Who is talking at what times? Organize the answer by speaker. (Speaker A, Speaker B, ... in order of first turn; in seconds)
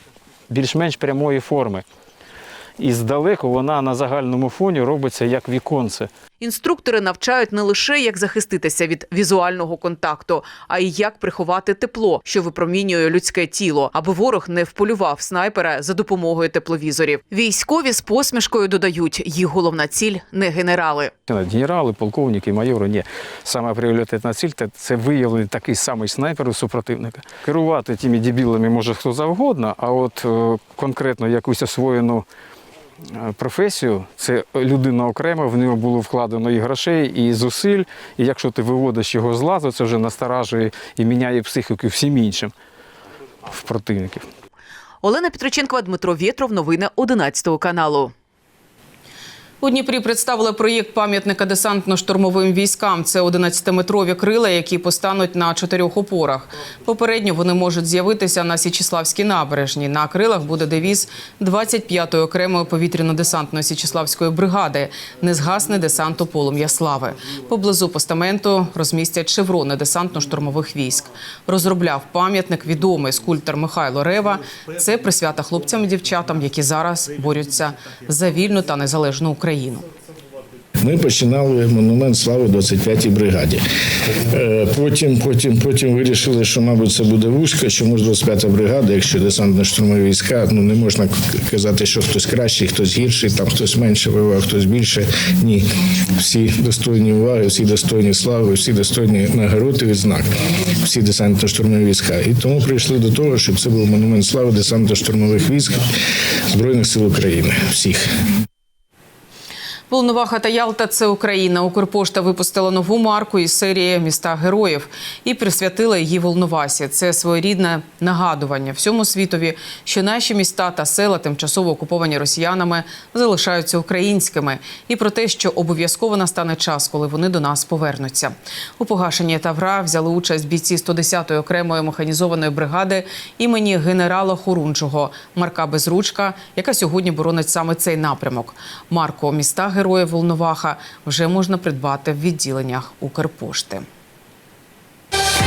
Speaker A: 0.5-1.8, 2.8-6.1, 21.3-32.2, 33.1-42.5, 43.5-44.3
Speaker B: 6.4-21.1, 45.0-48.1, 49.6-79.8, 109.9-143.8
Speaker C: 80.8-83.6, 84.2-105.9, 106.5-108.1